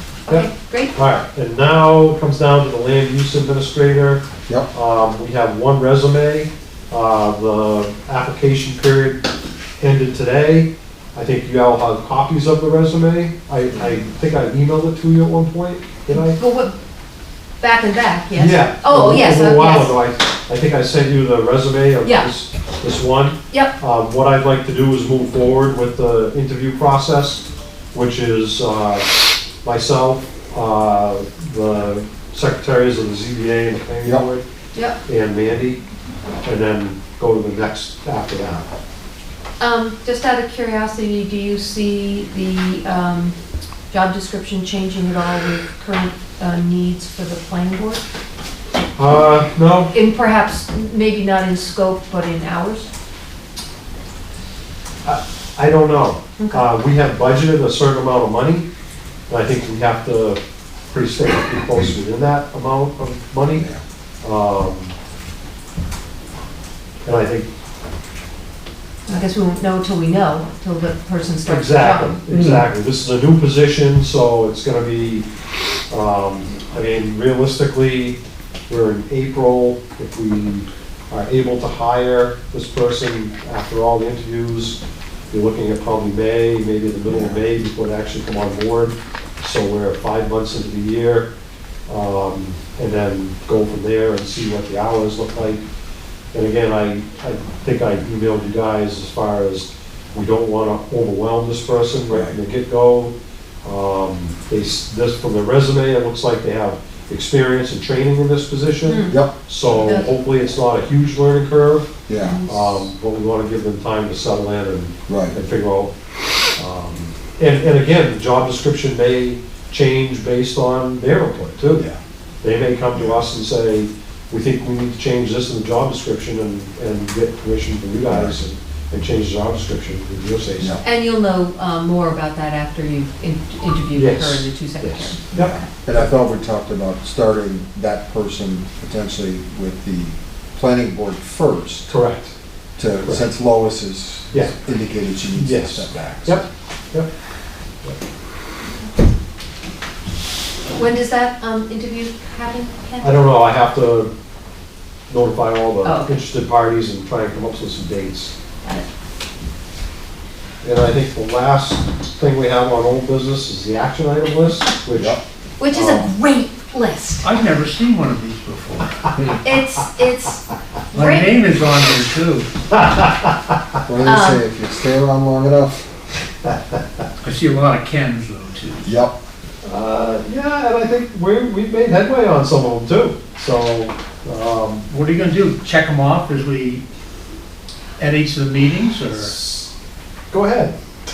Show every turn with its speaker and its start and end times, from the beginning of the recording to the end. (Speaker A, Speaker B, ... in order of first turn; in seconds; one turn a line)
Speaker A: 0.3-0.9
Speaker B: 0.3-9.2
Speaker B: 9.8-16.4
Speaker A: 16.1-16.8
Speaker A: 17.6-20.0
Speaker B: 18.3-29.1
Speaker A: 22.0-22.3
Speaker B: 29.6-34.4
Speaker C: 34.0-34.3
Speaker B: 35.0-35.8
Speaker B: 36.4-38.7
Speaker A: 39.6-43.3
Speaker A: 43.9-48.0
Speaker B: 49.0-49.9
Speaker A: 49.9-52.9
Speaker B: 55.0-58.7
Speaker A: 56.4-56.6
Speaker B: 59.3-63.7
Speaker C: 63.5-63.8
Speaker B: 64.2-64.9
Speaker B: 67.0-67.5
Speaker A: 69.1-72.2
Speaker B: 71.5-75.2
Speaker B: 75.9-78.2
Speaker B: 78.7-84.8
Speaker B: 85.3-91.3
Speaker C: 87.0-87.4
Speaker B: 91.9-95.6
Speaker B: 96.3-115.9
Speaker C: 102.1-102.3
Speaker A: 108.8-110.1
Speaker C: 112.1-112.4
Speaker A: 112.2-112.6
Speaker C: 115.1-115.4
Speaker B: 116.6-121.8
Speaker B: 122.4-130.8
Speaker C: 122.9-123.2
Speaker C: 128.1-128.4
Speaker A: 130.8-135.2
Speaker B: 133.9-136.1
Speaker C: 135.3-141.8
Speaker B: 141.9-142.3
Speaker C: 142.8-146.4
Speaker B: 143.0-143.3
Speaker B: 144.3-144.6
Speaker B: 145.3-147.1
Speaker A: 150.7-153.1
Speaker B: 153.0-154.1
Speaker B: 155.1-158.3
Speaker A: 155.8-156.2
Speaker B: 160.6-165.2
Speaker C: 164.9-165.2
Speaker A: 165.6-167.2
Speaker B: 165.7-166.1
Speaker D: 167.2-169.2
Speaker A: 169.4-170.4
Speaker D: 170.9-172.5
Speaker A: 170.9-171.3
Speaker B: 172.7-173.5
Speaker C: 173.9-175.9
Speaker A: 174.0-174.4
Speaker D: 177.2-178.9
Speaker C: 178.8-179.2
Speaker B: 179.6-184.9
Speaker D: 184.9-186.8
Speaker D: 188.0-189.3
Speaker B: 189.2-189.7
Speaker B: 190.3-190.8